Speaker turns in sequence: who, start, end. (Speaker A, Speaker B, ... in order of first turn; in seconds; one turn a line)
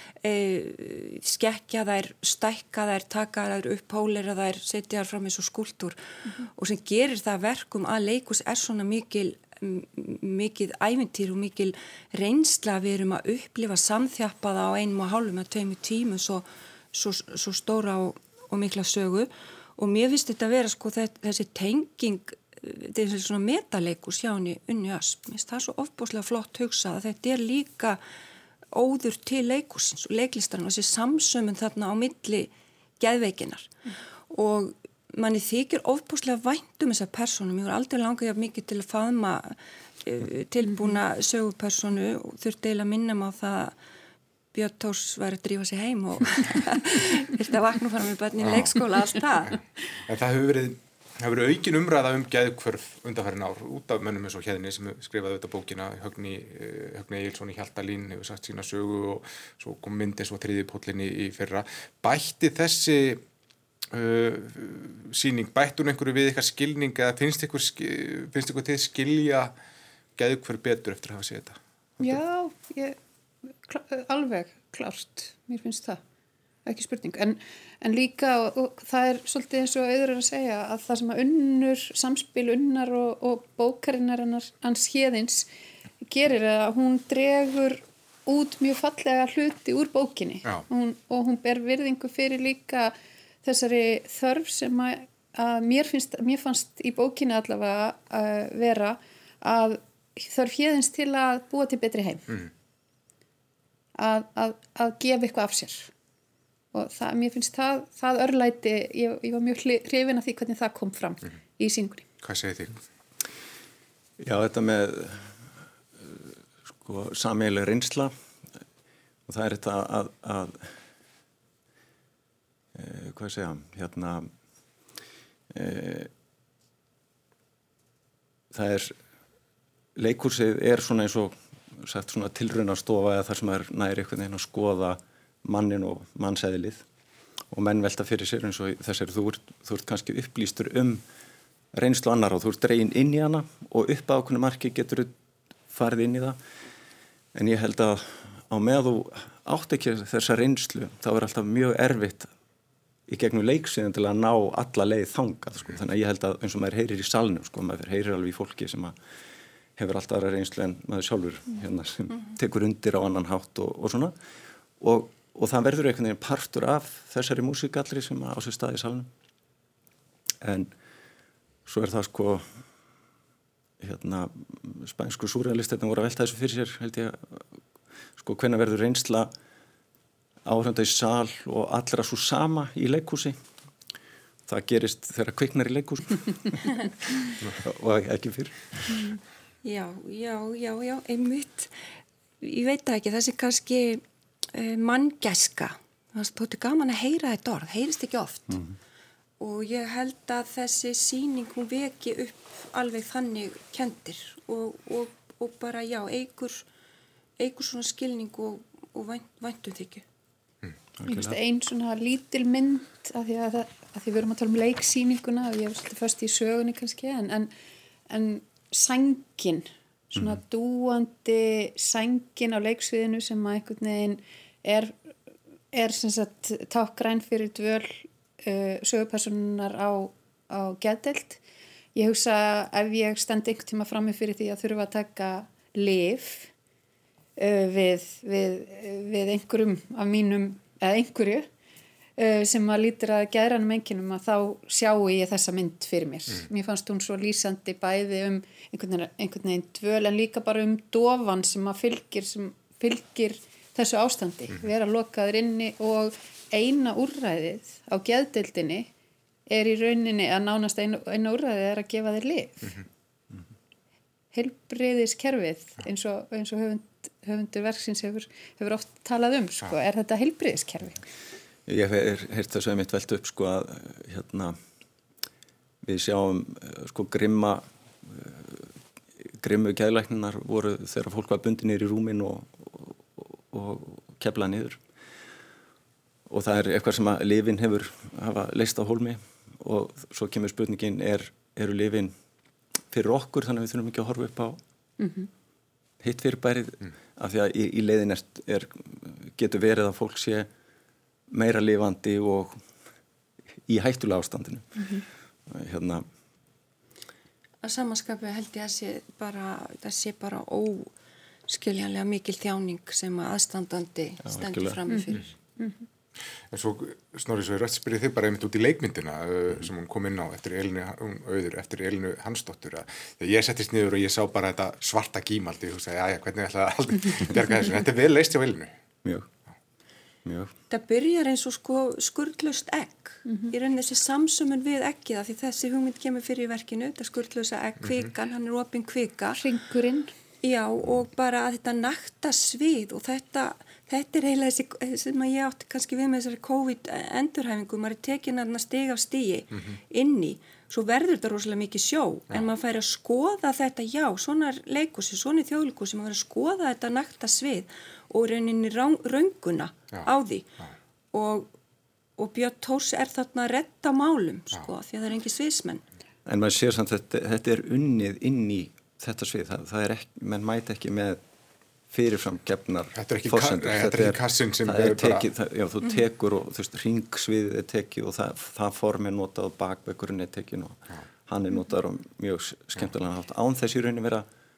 Speaker A: 0.2-28.0
Speaker A: 28.7-33.7
Speaker A: 34.3-43.7
Speaker A: 44.5-49.6
Speaker B: 48.4-48.7
Speaker B: 50.1-63.2
Speaker B: 63.9-69.5
Speaker B: 70.2-72.1
Speaker C: 72.0-73.0
Speaker C: 73.6-76.0
Speaker C: 76.7-85.5
Speaker C: 86.0-102.3
Speaker C: 104.0-105.9
Speaker C: 106.7-112.1
Speaker B: 112.2-112.8
Speaker D: 114.2-115.3
Speaker D: 116.0-118.1
Speaker D: 119.3-120.7
Speaker D: 122.7-124.3
Speaker D: 125.5-126.1
Speaker D: 128.5-128.9
Speaker D: 129.9-136.8
Speaker D: 137.5-141.0
Speaker D: 141.7-145.1
Speaker D: 145.7-146.4
Speaker D: 147.3-152.3
Speaker D: 153.1-158.9
Speaker D: 159.8-164.1
Speaker D: 164.8-169.1
Speaker D: 170.4-170.7
Speaker D: 171.7-172.4
Speaker D: 173.8-177.4
Speaker D: 178.2-179.3
Speaker D: 180.4-183.4
Speaker D: 184.5-186.7
Speaker D: 187.5-188.9
Speaker A: 189.6-191.7
Speaker A: 192.4-194.0
Speaker A: 194.5-198.6
Speaker D: 198.5-198.8
Speaker A: 199.4-206.6
Speaker A: 207.4-210.0
Speaker D: 211.0-211.4
Speaker C: 211.0-217.5
Speaker C: 218.1-225.1
Speaker C: 225.7-231.4
Speaker C: 231.9-236.5
Speaker C: 237.4-241.5
Speaker C: 242.2-258.9
Speaker C: 259.5-262.8
Speaker C: 264.3-271.0
Speaker D: 271.7-274.6
Speaker D: 275.8-278.7
Speaker D: 279.2-284.8
Speaker D: 286.3-292.1
Speaker D: 292.9-294.6
Speaker C: 295.0-295.3
Speaker D: 296.0-300.5
Speaker D: 301.3-302.6
Speaker D: 303.7-306.0
Speaker C: 304.8-305.0
Speaker A: 307.6-310.9
Speaker A: 311.5-315.3
Speaker D: 314.2-314.8
Speaker C: 314.9-315.8
Speaker B: 316.5-328.7
Speaker D: 329.0-329.3
Speaker D: 330.2-330.5
Speaker A: 330.7-339.4
Speaker C: 333.3-333.5
Speaker C: 339.4-340.1
Speaker A: 340.4-360.5
Speaker A: 361.1-361.5
Speaker A: 362.2-365.8
Speaker D: 366.2-371.2
Speaker D: 371.9-384.2
Speaker B: 372.9-375.2